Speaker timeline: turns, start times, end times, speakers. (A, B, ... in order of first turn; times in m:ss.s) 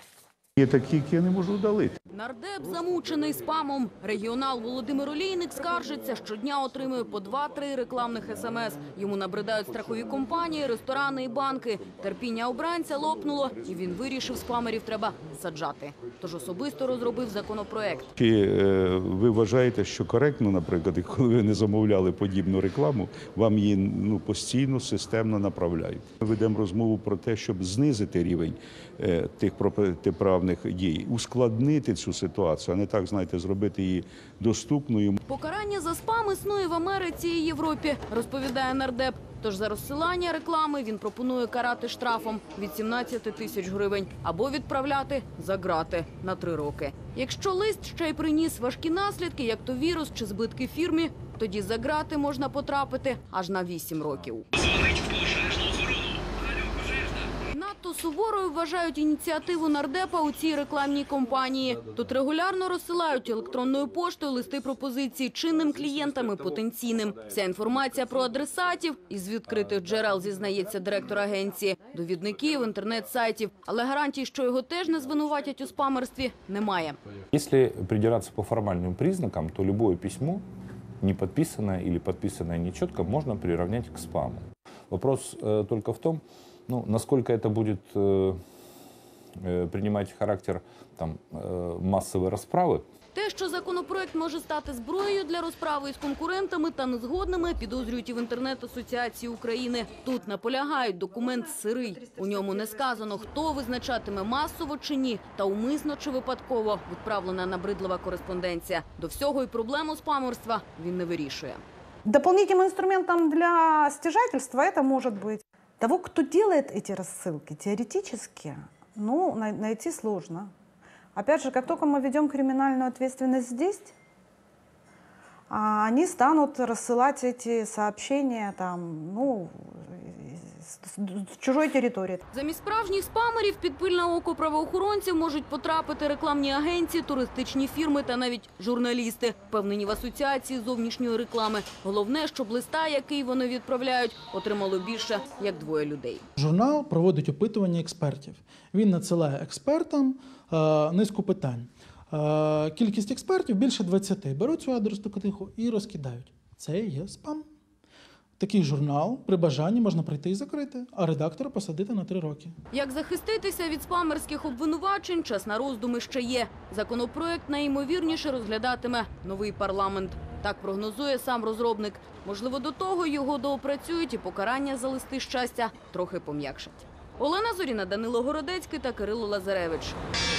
0:00.6-0:02.0 A
0:02.1-0:18.1 B
0:18.2-0:35.2 A
0:35.3-0:54.5 B
0:57.5-1:17.0 B
1:17.3-1:20.4 C
1:21.0-1:28.4 C
1:29.4-1:32.8 C
1:33.1-1:51.6 B
1:52.0-2:00.5 D
2:01.2-2:03.9 D
2:05.5-2:12.2 D
2:12.3-2:26.2 B
2:26.4-2:37.4 E
2:38.4-2:42.5 E
2:42.7-3:00.0 B